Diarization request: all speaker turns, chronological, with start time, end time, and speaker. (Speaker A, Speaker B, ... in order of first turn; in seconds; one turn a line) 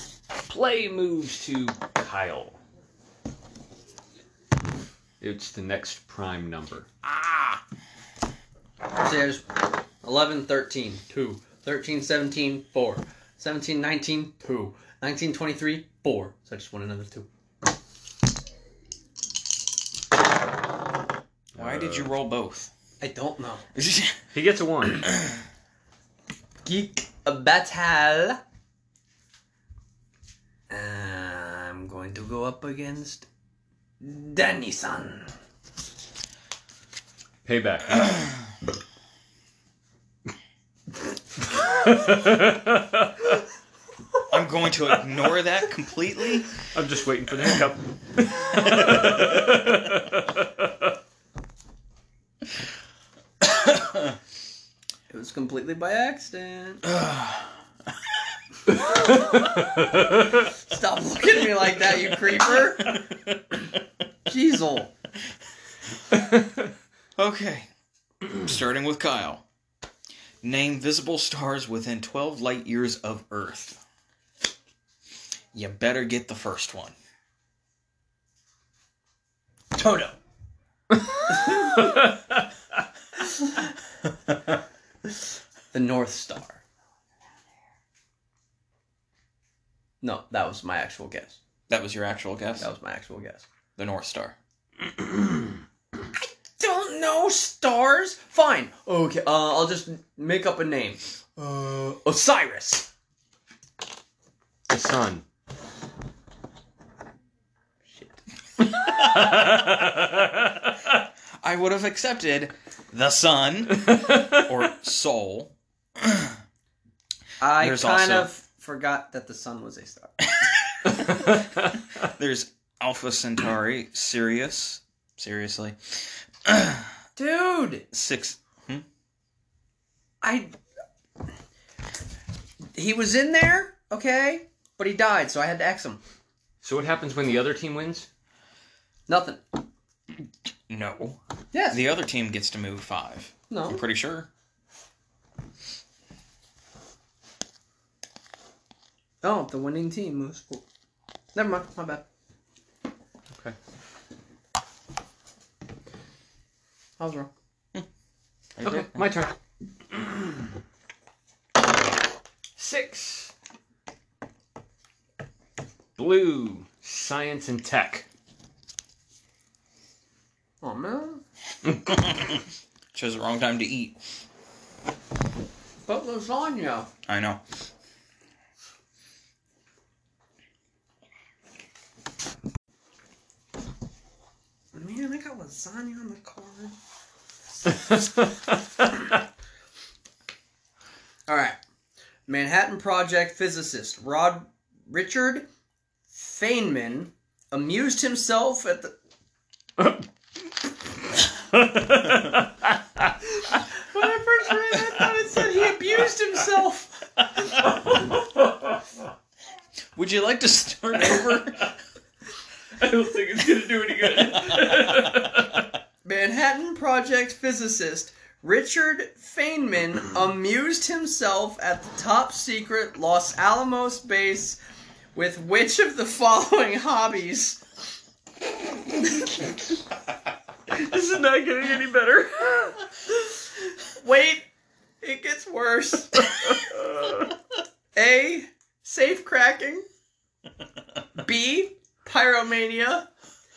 Speaker A: 0.5-2.6
Speaker A: 5.2-6.9
Speaker B: 7.0-7.6
Speaker C: 9.0-17.3
Speaker B: 21.6-22.7
Speaker A: 21.6-22.1
Speaker C: 23.0-23.6
Speaker B: 23.7-24.2
Speaker A: 24.3-25.1
Speaker B: 25.1-25.3
Speaker C: 26.6-28.4
Speaker C: 30.7-33.3
Speaker C: 34.0-35.3
Speaker A: 37.5-38.3
Speaker A: 41.6-43.2
Speaker B: 44.3-46.6
Speaker A: 46.7-50.9
Speaker B: 53.4-54.1
Speaker C: 55.1-56.8
Speaker B: 56.9-57.6
Speaker A: 59.6-60.2
Speaker C: 60.6-63.0
Speaker C: 64.3-64.9
Speaker B: 67.2-67.7
Speaker B: 68.3-69.4
Speaker B: 70.4-73.8
Speaker B: 75.5-77.0
Speaker C: 79.7-80.2
Speaker A: 80.9-82.4
Speaker C: 81.4-81.8
Speaker C: 85.7-86.6
Speaker C: 90.0-91.4
Speaker B: 91.7-92.7
Speaker C: 92.6-93.5
Speaker B: 93.8-94.4
Speaker C: 96.6-102.9
Speaker A: 104.7-105.2
Speaker A: 108.6-110.9
Speaker B: 111.4-116.4
Speaker A: 113.8-114.5
Speaker C: 117.4-120.3
Speaker B: 117.5-118.3
Speaker B: 120.4-121.4
Speaker A: 121.1-121.5
Speaker B: 121.9-127.0
Speaker C: 127.2-127.9
Speaker B: 127.9-128.8
Speaker C: 130.2-130.6
Speaker C: 132.8-136.0
Speaker A: 136.6-138.1
Speaker C: 139.1-139.4
Speaker B: 140.7-144.3
Speaker C: 141.5-141.8
Speaker C: 143.5-143.8
Speaker C: 149.2-150.7
Speaker C: 151.3-152.1
Speaker C: 157.0-157.3
Speaker B: 158.6-159.1
Speaker A: 158.6-159.4
Speaker A: 159.9-160.5
Speaker A: 162.6-163.3
Speaker A: 166.0-168.1
Speaker C: 170.6-171.2
Speaker B: 171.8-172.4
Speaker B: 172.9-174.0
Speaker C: 175.9-176.9
Speaker B: 177.1-177.4
Speaker C: 184.7-186.8
Speaker C: 191.3-191.6
Speaker C: 192.3-195.5
Speaker C: 196.1-198.9
Speaker A: 199.8-200.1
Speaker A: 201.2-203.6
Speaker C: 203.6-207.7
Speaker A: 208.2-208.8
Speaker B: 210.0-211.7
Speaker A: 212.8-215.7
Speaker B: 214.6-214.8
Speaker C: 216.0-224.6
Speaker C: 225.2-227.6
Speaker C: 229.0-229.5
Speaker A: 230.7-232.8
Speaker C: 233.2-234.5
Speaker C: 235.0-236.3
Speaker A: 236.3-237.3
Speaker C: 237.9-239.9
Speaker C: 241.2-243.1